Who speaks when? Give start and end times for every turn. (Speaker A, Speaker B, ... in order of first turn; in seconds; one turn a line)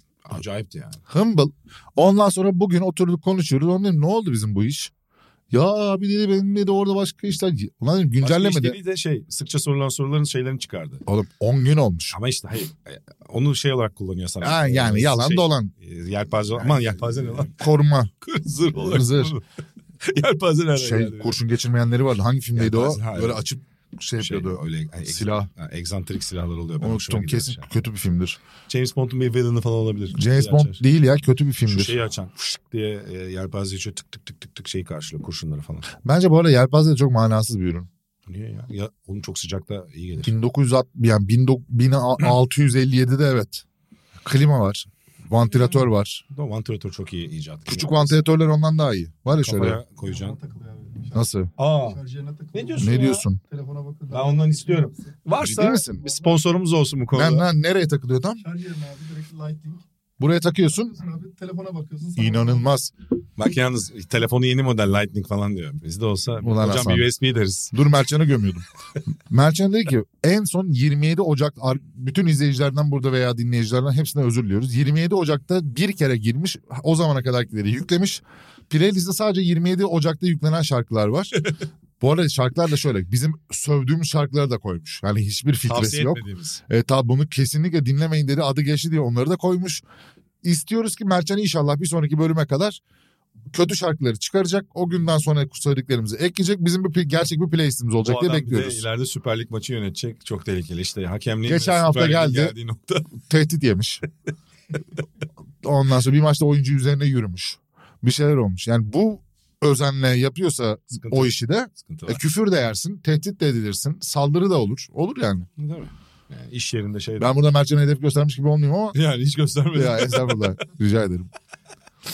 Speaker A: 0.2-1.0
Speaker B: 1.1-4.9
Speaker B: 5.5-8.8
Speaker A: 8.2-11.0
Speaker B: 11.1-12.2
Speaker A: 12.1-17.6
Speaker B: 14.4-15.7
Speaker B: 17.4-18.1
Speaker A: 18.2-19.4
Speaker B: 18.8-19.3
Speaker A: 20.0-21.4
Speaker B: 20.8-25.5
Speaker A: 22.5-23.4
Speaker A: 24.2-27.7
Speaker B: 26.8-28.4
Speaker A: 28.7-30.8
Speaker B: 30.1-31.9
Speaker A: 31.6-35.9
Speaker B: 36.0-37.9
Speaker A: 38.3-40.3
Speaker B: 40.2-43.6
Speaker B: 44.2-46.2
Speaker A: 46.3-48.2
Speaker B: 47.7-49.8
Speaker A: 49.4-50.4
Speaker C: 50.0-56.4
Speaker B: 51.1-51.5
Speaker A: 51.6-52.0
Speaker A: 52.5-53.2
Speaker B: 52.8-53.4
Speaker A: 54.1-57.5
Speaker B: 55.4-56.0
Speaker B: 57.1-58.4
Speaker C: 58.4-59.8
Speaker B: 60.2-60.9
Speaker C: 60.7-62.7
Speaker B: 62.2-62.9
Speaker A: 63.4-67.7
Speaker B: 66.4-67.1
Speaker B: 67.7-68.6
Speaker B: 69.3-81.3
Speaker B: 82.0-89.8
Speaker A: 85.7-86.6
Speaker B: 90.4-92.8
Speaker B: 93.5-98.8
Speaker A: 98.0-103.1
Speaker B: 101.5-102.5
Speaker B: 103.2-104.0
Speaker B: 105.6-115.5
Speaker A: 111.0-112.2
Speaker A: 115.6-117.4
Speaker B: 117.2-119.0
Speaker A: 118.9-120.6
Speaker B: 119.7-121.3